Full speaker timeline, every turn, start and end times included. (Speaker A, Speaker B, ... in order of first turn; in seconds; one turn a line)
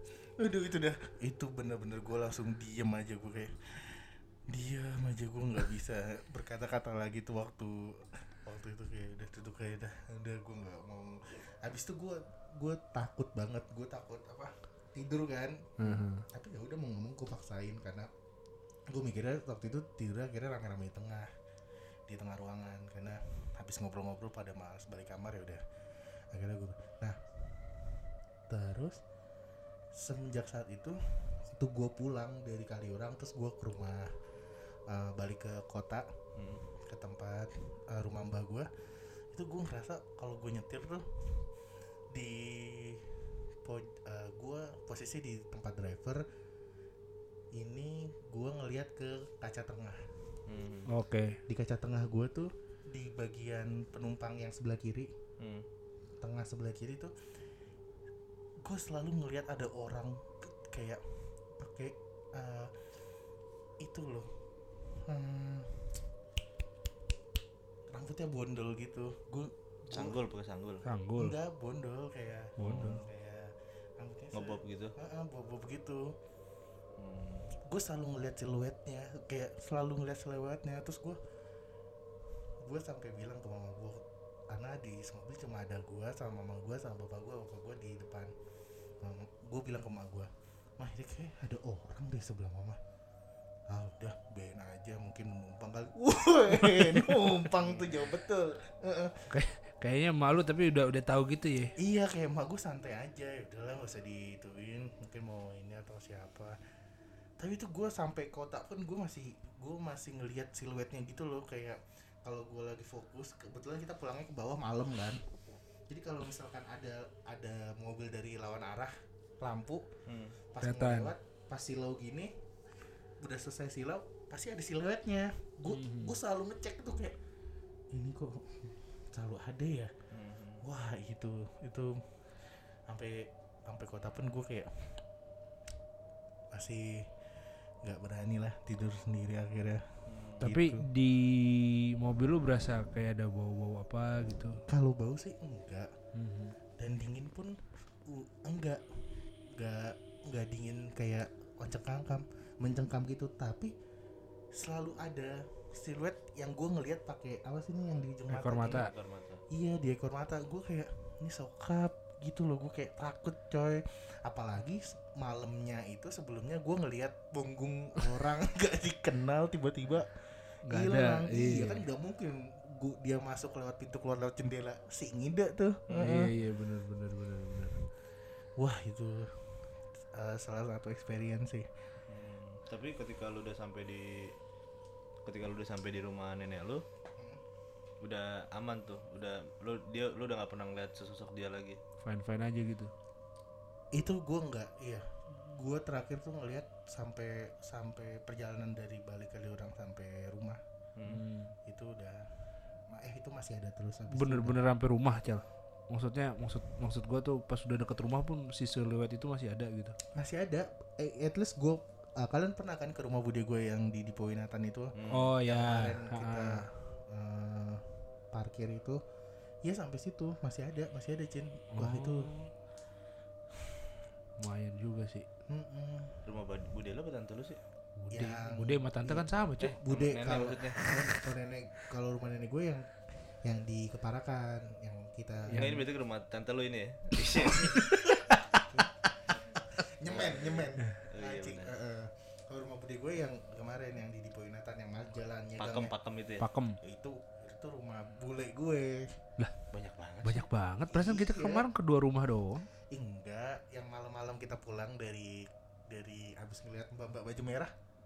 Speaker A: 0.4-18.1
Speaker B: 15.8-16.2
Speaker A: 18.9-21.3
Speaker A: 22.1-27.9
Speaker A: 28.5-29.0
Speaker A: 29.9-34.2
Speaker A: 34.9-36.1
Speaker C: 36.4-36.6
Speaker A: 36.6-41.5
Speaker A: 42.1-46.2
Speaker A: 47.5-50.4
Speaker C: 50.5-50.9
Speaker B: 50.9-51.4
Speaker A: 51.5-55.1
Speaker C: 55.4-55.6
Speaker A: 56.2-57.1
Speaker A: 58.6-62.7
Speaker A: 63.8-66.1
Speaker A: 67.9-70.2
Speaker C: 69.9-70.8
Speaker B: 70.8-71.4
Speaker A: 71.2-76.1
Speaker B: 72.6-73.0
Speaker C: 72.6-72.9
Speaker C: 74.3-74.9
Speaker C: 77.0-77.5
Speaker A: 77.6-81.2
Speaker A: 82.6-88.3
Speaker A: 89.0-92.8
Speaker A: 93.7-99.3
Speaker B: 99.3-101.7
Speaker A: 101.8-106.6
Speaker A: 107.4-115.2
Speaker A: 115.9-119.9
Speaker C: 120.1-120.3
Speaker A: 120.5-122.3
Speaker B: 120.6-121.1
Speaker A: 123.2-127.2
Speaker B: 125.7-126.2
Speaker A: 127.9-129.9
Speaker C: 130.1-130.6
Speaker A: 130.6-132.0
Speaker A: 132.9-135.0
Speaker A: 136.5-137.2
Speaker A: 137.8-140.9
Speaker C: 140.1-140.4
Speaker B: 140.4-144.6
Speaker A: 144.7-145.9
Speaker B: 146.1-146.6
Speaker A: 146.8-153.7
Speaker A: 154.5-158.9
Speaker B: 158.3-158.9
Speaker C: 158.7-159.4
Speaker A: 159.5-176.2
Speaker B: 170.7-171.8
Speaker C: 175.9-176.3
Speaker B: 175.9-177.8
Speaker A: 178.6-181.7
Speaker C: 182.1-184.3
Speaker C: 185.2-186.8
Speaker A: 187.2-187.4
Speaker C: 188.0-191.8
Speaker B: 192.0-192.9
Speaker A: 193.9-200.6
Speaker C: 200.9-201.2
Speaker B: 201.1-201.5
Speaker A: 201.6-204.6
Speaker B: 204.1-209.9
Speaker A: 210.1-219.0
Speaker C: 214.9-215.3
Speaker B: 215.1-216.6
Speaker A: 219.6-222.3
Speaker B: 221.7-222.5
Speaker B: 224.4-225.2
Speaker A: 225.5-226.2
Speaker C: 226.2-227.6
Speaker A: 228.0-235.7
Speaker B: 228.1-229.8
Speaker C: 229.6-230.9
Speaker B: 235.5-235.8
Speaker C: 235.5-237.8
Speaker B: 237.5-238.6
Speaker A: 238.7-245.9
Speaker C: 240.0-241.7
Speaker C: 245.6-246.4
Speaker B: 246.4-246.8
Speaker A: 246.8-249.2
Speaker C: 249.7-250.4
Speaker B: 250.2-252.7
Speaker A: 250.9-251.7
Speaker A: 252.9-257.7